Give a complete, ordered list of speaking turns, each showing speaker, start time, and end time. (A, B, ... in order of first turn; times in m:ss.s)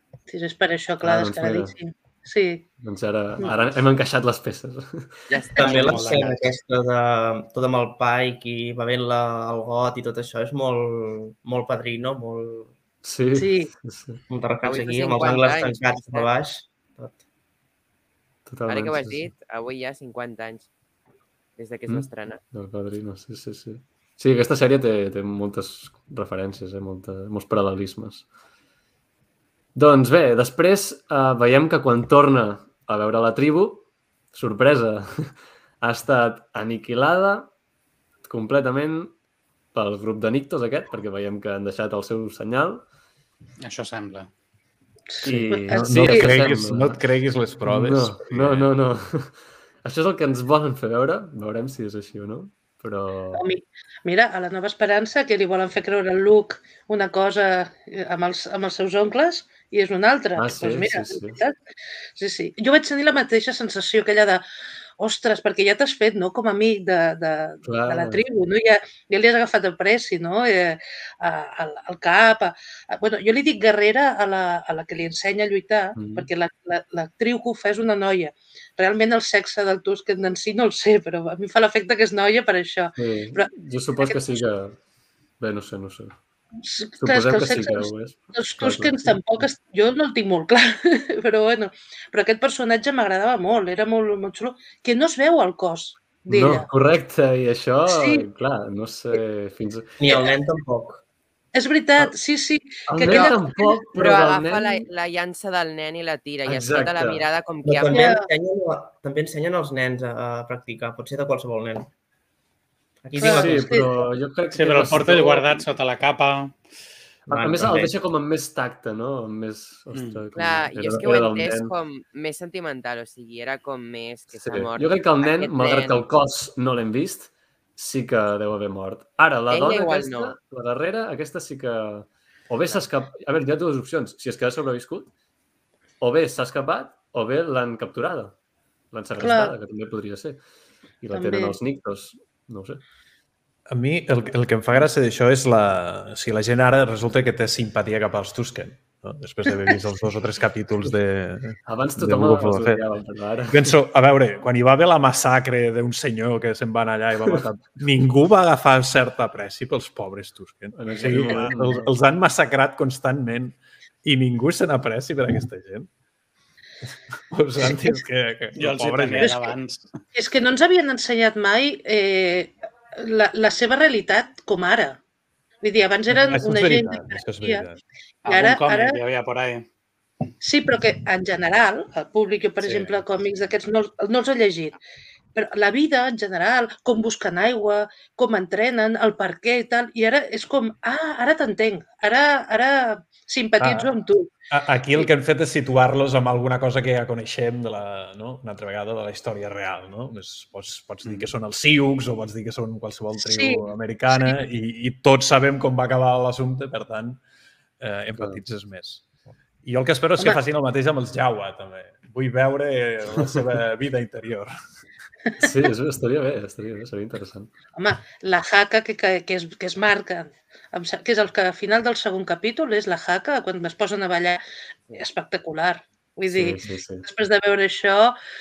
0:00.3-0:02.6 A
0:01.0-0:01.8 B
0:02.8-0:05.3 B
0:03.4-0:03.6 C
0:05.3-0:06.2 D
0:05.6-0:06.0 A
0:05.6-0:12.7 E
0:05.6-0:06.4 C
0:13.0-0:14.2 B
0:13.3-0:13.7 A
0:14.3-0:17.2 E
0:14.6-0:16.3 D
0:18.5-0:19.3 B
0:18.7-0:20.7 D
0:21.6-0:22.4 D
0:21.8-0:28.2 B
0:29.7-0:37.5 B
0:38.2-0:39.1 B
0:39.7-0:42.8 B
0:43.6-0:44.3 C
0:45.1-0:46.6 A
0:45.2-0:47.0 B
0:45.6-0:48.7 F
0:47.6-0:53.4 B
0:53.3-1:01.6 A
1:00.4-1:01.4 B
1:02.2-1:04.4 A
1:05.0-1:24.3 A
1:07.6-1:08.2 B
1:15.9-1:16.3 B
1:23.0-1:24.8 B
1:25.4-1:26.2 B
1:26.6-1:36.7 A
1:27.0-1:29.5 B
1:36.3-1:39.9 B
1:37.9-1:38.3 A
1:40.0-1:41.0 E
1:40.0-1:40.3 A
1:41.5-1:43.8 A
1:42.9-1:44.8 B
1:43.0-1:43.4 D
1:44.0-1:48.1 D
1:46.4-1:47.2 B
1:47.6-1:51.9 E
1:47.9-1:48.2 A
1:53.0-1:54.1 E
1:53.2-1:53.8 A
1:53.2-1:55.6 B
1:54.5-1:56.6 C
1:57.3-2:01.7 B
1:57.3-1:58.0 E
1:59.9-2:00.2 C
2:00.3-2:06.1 D
2:04.3-2:15.1 B
2:09.5-2:10.3 D
2:16.0-2:18.4 B
2:18.9-2:20.4 B
2:19.2-2:19.5 A
2:21.0-2:22.8 B
2:21.1-2:21.6 A
2:23.7-2:32.8 F
2:31.6-2:33.8 B
2:33.5-2:45.9 F
2:40.7-2:41.9 B
2:47.3-2:49.5 F
2:48.5-2:49.8 C
2:49.2-2:49.5 A
2:50.1-2:55.0 A
2:55.6-2:57.7 A
2:56.1-2:57.8 F
2:58.2-2:59.6 C
2:58.3-2:59.0 A
3:00.4-3:04.8 A
3:02.6-3:03.0 C
3:05.3-3:14.3 A
3:13.6-3:13.9 F
3:14.5-3:27.2 F
3:23.2-3:24.4 A
3:27.8-3:29.0 F
3:29.6-3:34.5 F
3:35.4-3:37.5 B
3:37.8-3:44.4 A
3:44.9-3:48.1 A
3:46.3-3:47.1 B